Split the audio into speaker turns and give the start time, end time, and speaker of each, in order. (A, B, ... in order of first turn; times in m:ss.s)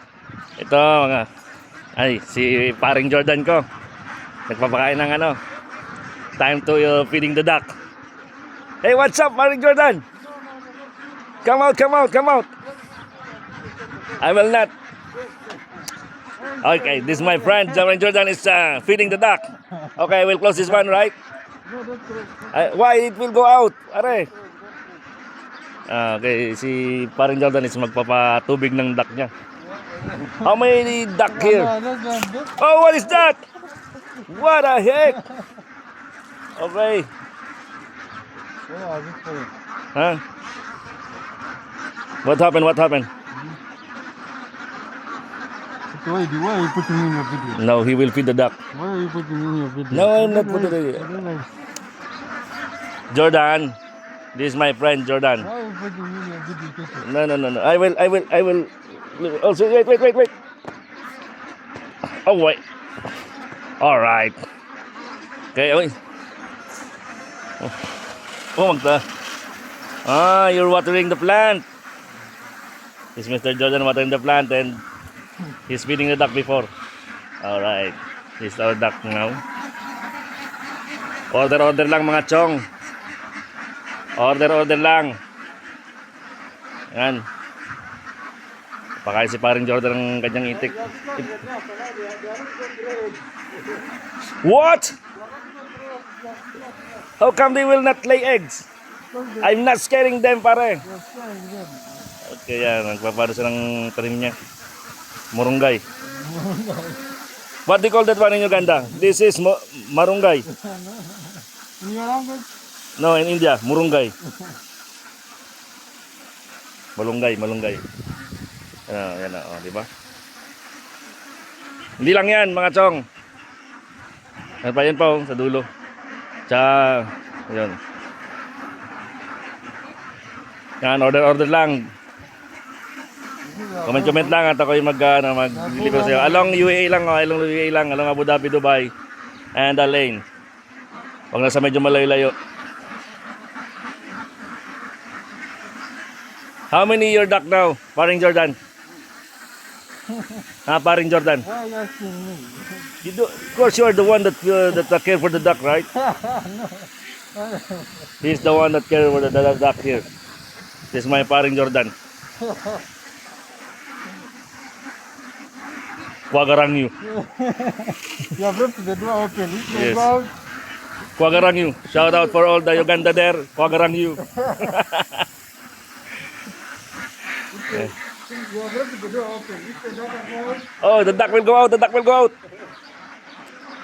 0:00.6-0:01.3 A
0:02.0-0:03.6 A
0:04.5-0:05.4 A
0:06.4-0:07.7 A
0:08.8-0:10.0 A
0:10.3-0:11.1 B
0:11.4-0:12.5 A
0:14.2-0:14.7 A
0:16.4-0:18.0 B
0:16.6-0:21.2 A
0:21.6-0:22.7 B
0:22.5-0:24.3 A
0:24.3-0:24.8 B
0:25.9-0:29.3 A
0:29.8-0:30.6 B
0:30.4-0:31.7 A
0:31.3-0:32.6 B
0:32.6-0:33.4 A
0:34.3-0:35.2 A
0:35.1-0:35.4 B
0:36.6-0:37.1 A
0:38.7-0:39.5 B
0:40.0-0:40.2 A
0:42.2-0:43.1 A
0:45.9-0:47.6 B
0:47.5-0:48.6 A
0:48.7-0:51.5 B
0:49.9-0:51.1 A
0:53.1-0:53.8 A
0:54.4-0:55.5 A
0:55.4-0:57.1 B
0:57.0-1:00.3 A
1:02.2-1:02.6 A
1:03.8-1:04.4 A
1:05.6-1:06.0 A
1:08.6-1:09.0 A
1:10.0-1:11.7 A
1:13.2-1:14.8 A
1:15.7-1:16.7 A
1:17.4-1:19.4 A
1:21.3-1:22.6 A
1:24.2-1:25.2 A
1:26.9-1:27.2 A
1:29.0-1:31.3 A
1:30.5-1:33.8 B
1:34.4-1:34.9 A
1:35.2-1:37.0 B
1:37.2-1:38.6 A
1:39.1-1:39.6 B
1:39.4-1:40.8 A
1:40.8-1:42.1 B
1:42.3-1:44.4 A
1:45.3-1:45.8 A
1:46.2-1:47.0 B
1:47.7-1:50.5 A
1:50.5-1:52.5 B
1:53.0-1:54.2 A
1:57.0-1:57.8 A
1:58.9-1:59.9 A
2:02.0-2:03.0 A
2:04.6-2:05.7 A
2:06.5-2:07.8 A
2:10.8-2:11.8 A
2:13.4-2:14.4 B
2:13.8-2:18.9 A
2:15.5-2:16.6 B
2:19.6-2:20.2 A
2:21.3-2:22.4 A
2:26.7-2:28.6 A
2:30.1-2:30.4 B
2:30.7-2:31.5 A
2:31.4-2:32.9 B
2:33.0-2:35.9 A
2:36.0-2:38.0 B
2:38.2-2:40.1 A
2:40.9-2:41.9 A
2:42.4-2:42.8 B
2:46.3-2:46.9 A
2:47.0-2:50.3 B
2:49.7-2:50.1 A
2:51.2-2:55.2 A
2:54.3-2:54.8 B
2:57.5-3:00.8 B
3:00.8-3:02.4 A